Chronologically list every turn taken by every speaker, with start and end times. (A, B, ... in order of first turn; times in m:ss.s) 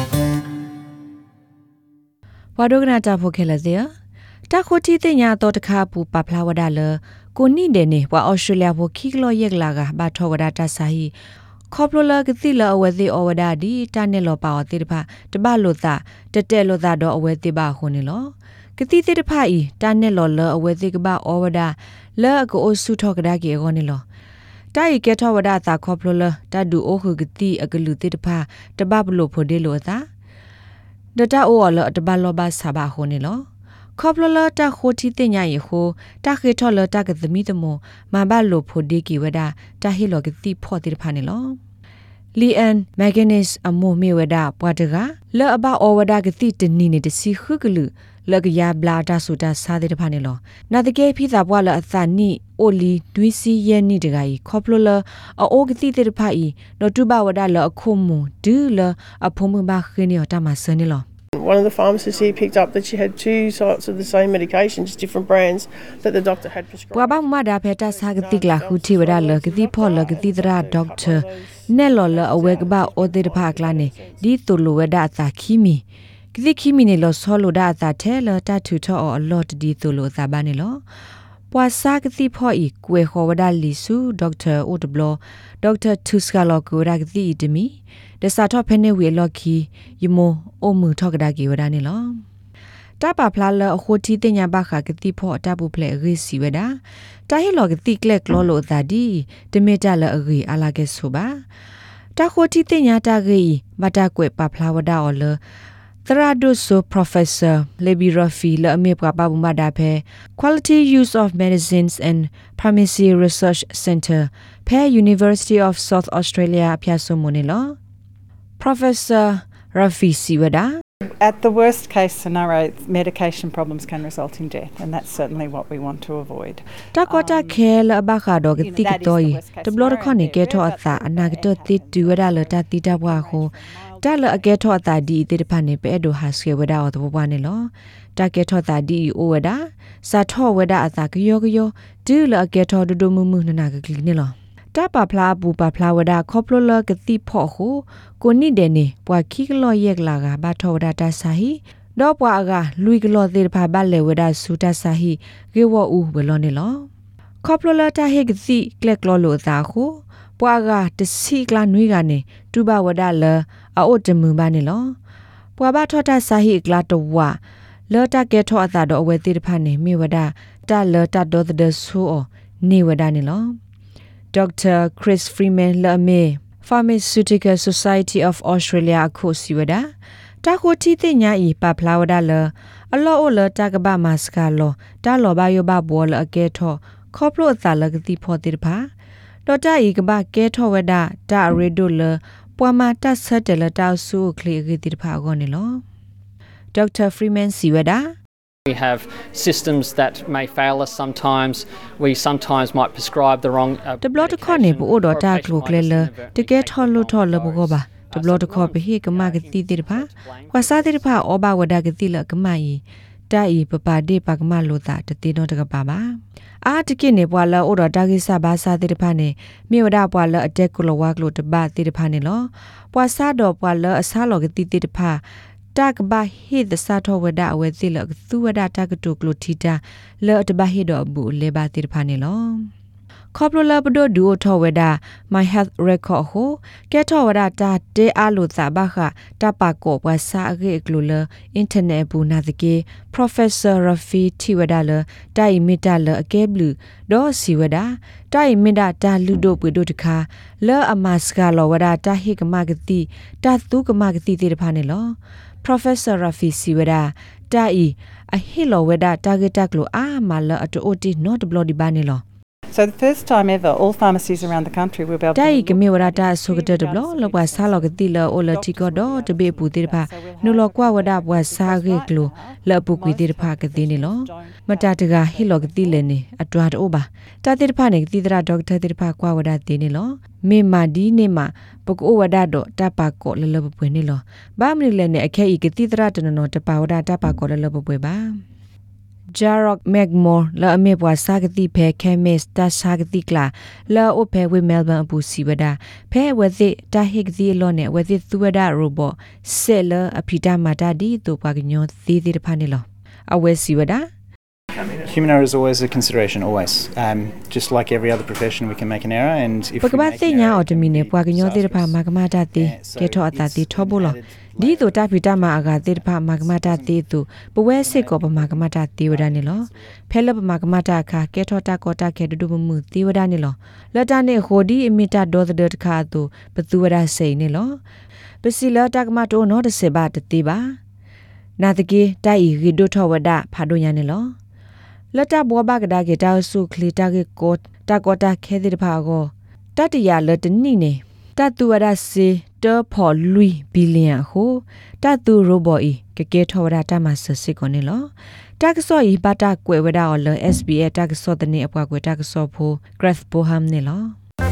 0:02.6-0:03.9 A
0:04.5-0:11.1 A
0:11.7-0:24.0 A
0:24.7-0:30.1 A
0:31.1-0:33.4 A
0:34.0-0:41.6 A
0:42.3-1:01.0 A
1:01.3-1:07.2 B
1:06.9-1:15.8 A
1:07.9-1:14.2 B
1:16.3-1:20.8 A
1:21.5-1:32.2 A
1:33.0-1:41.4 A
1:42.2-1:45.4 A
1:46.0-1:57.8 A
1:58.6-2:00.8 A
2:01.2-2:07.6 C
2:06.9-2:36.9 A
2:08.5-2:15.0 C
2:37.4-2:45.0 A
2:45.6-2:53.6 A
2:54.3-2:59.9 A
3:00.4-3:08.9 A
3:09.4-3:15.8 A
3:16.7-3:18.1 A
3:18.6-3:31.1 D
3:24.0-3:45.2 A
3:45.7-3:52.7 A
3:53.3-4:22.2 A
4:22.7-4:36.0 C
4:25.3-4:48.4 A
4:49.3-5:04.1 A
5:05.0-5:12.0 E
5:09.8-5:27.8 A
5:12.5-5:17.0 E
5:17.7-5:19.9 E
5:28.4-5:30.8 A
5:31.6-5:34.3 A
5:35.1-5:54.1 A